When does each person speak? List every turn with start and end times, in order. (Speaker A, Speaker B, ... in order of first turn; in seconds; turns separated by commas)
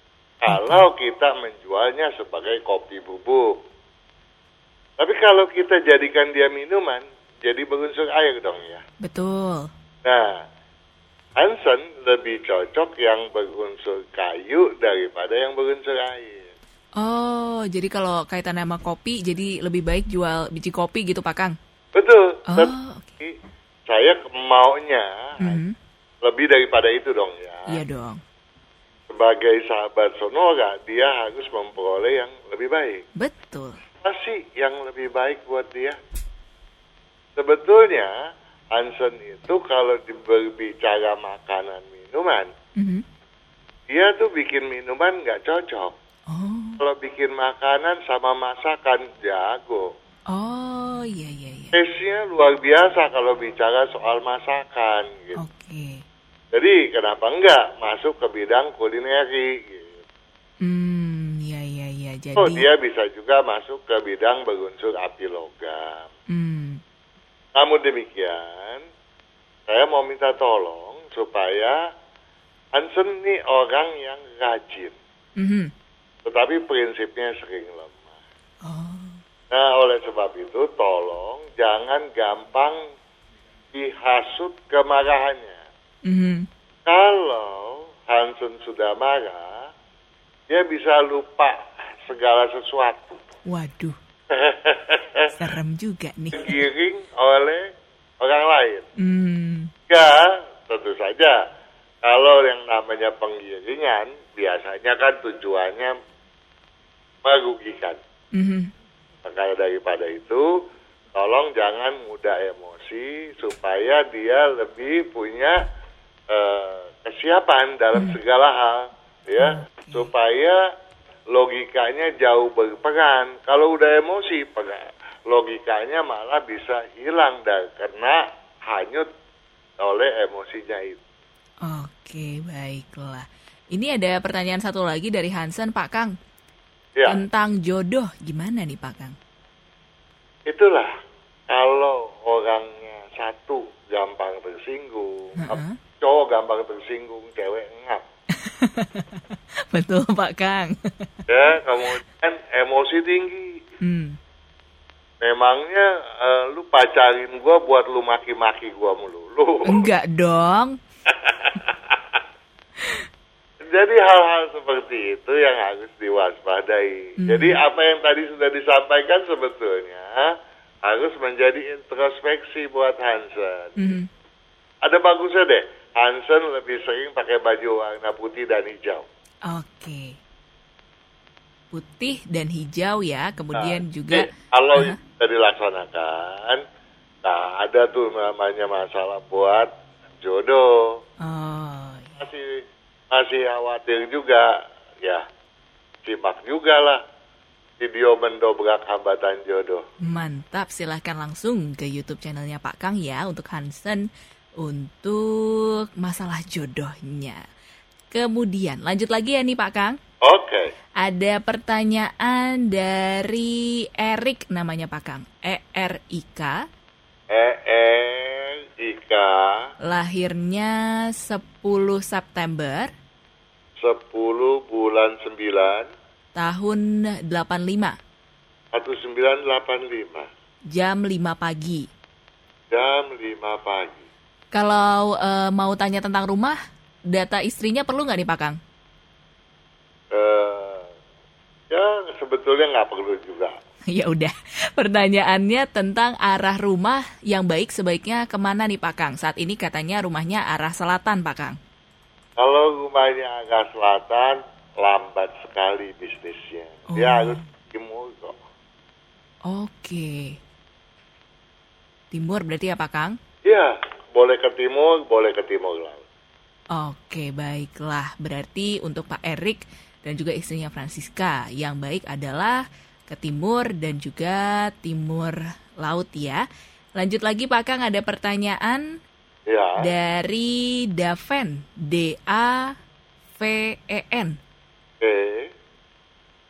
Speaker A: 0.4-3.6, Speaker B: 0.5-0.8, Speaker A: 5.0-8.8, Speaker B: 9.0-9.7, Speaker A: 10.1-10.4, Speaker A: 11.4-16.5, Speaker B: 17.0-21.6, Speaker A: 21.9-23.3, Speaker B: 22.5-23.1, Speaker A: 23.9-25.6, Speaker B: 25.4-25.8, Speaker A: 26.2-27.8, Speaker B: 27.7-28.2, Speaker A: 29.1-33.0, Speaker B: 33.1-33.8, Speaker A: 34.0-36.0, Speaker A: 37.4-38.1, Speaker A: 38.7-42.5, Speaker B: 42.8-43.0, Speaker A: 43.9-45.9, Speaker B: 46.3-46.8, Speaker A: 46.8-49.9, Speaker B: 50.3-51.8, Speaker A: 51.7-55.4, Speaker B: 55.4-56.0, Speaker A: 56.5-60.0, Speaker B: 60.6-62.7, Speaker A: 62.4-66.1, Speaker B: 66.3-66.8, Speaker A: 67.5-68.8, Speaker A: 69.7-71.8, Speaker A: 72.7-74.9, Speaker B: 75.4-75.7, Speaker A: 76.2-78.1, Speaker B: 78.6-79.2, Speaker A: 79.5-82.9, Speaker A: 83.7-85.6, Speaker B: 86.0-86.5, Speaker A: 86.9-89.7, Speaker A: 90.5-93.2, Speaker B: 93.5-94.0, Speaker A: 94.3-95.3, Speaker B: 95.4-96.6, Speaker A: 96.3-97.7, Speaker A: 98.2-98.9, Speaker B: 99.0-99.7, Speaker A: 99.9-101.4, Speaker A: 102.0-106.0, Speaker A: 107.2-108.0, Speaker B: 108.3-108.7, Speaker A: 109.2-110.6, Speaker A: 111.1-115.6, Speaker A: 116.3-120.6, Speaker B: 119.4-120.1, Speaker A: 121.3-129.1, Speaker A: 129.8-131.0, Speaker B: 131.6-136.1, Speaker A: 136.9-137.2, Speaker B: 137.1-139.2, Speaker A: 140.5-140.9, Speaker A: 141.5-148.0, Speaker B: 145.4-145.8, Speaker B: 148.3-151.1, Speaker A: 151.3-153.6, Speaker B: 153.8-154.2, Speaker A: 155.2-159.9, Speaker B: 159.7-160.8, Speaker A: 161.1-162.0, Speaker A: 163.6-170.3, Speaker B: 167.2-167.6, Speaker A: 170.8-173.8, Speaker B: 173.8-174.1, Speaker A: 174.8-179.1, Speaker B: 179.4-180.2, Speaker B: 181.7-185.0, Speaker A: 183.6-186.6, Speaker A: 187.2-189.7, Speaker A: 190.2-191.0, Speaker B: 191.2-192.1, Speaker A: 192.2-194.5, Speaker A: 196.1-197.0, Speaker A: 197.8-199.8, Speaker B: 200.0-207.4, Speaker B: 208.1-210.0, Speaker A: 210.2-210.7, Speaker B: 211.0-216.6, Speaker A: 217.3-219.7, Speaker B: 219.8-222.9, Speaker A: 223.8-225.9, Speaker B: 226.3-228.0, Speaker A: 228.7-230.3, Speaker B: 230.7-231.9, Speaker A: 232.7-234.1, Speaker B: 234.5-236.6, Speaker B: 237.1-238.6, Speaker A: 240.1-240.9, Speaker A: 241.7-243.6, Speaker B: 243.9-251.6, Speaker A: 252.4-258.4, Speaker B: 256.9-257.5, Speaker B: 259.4-260.4, Speaker B: 262.1-263.2, Speaker A: 263.4-266.0, Speaker B: 266.7-276.4, Speaker B: 276.9-279.0, Speaker A: 279.5-279.9, Speaker B: 279.8-282.8, Speaker B: 283.4-284.4, Speaker A: 285.0-285.5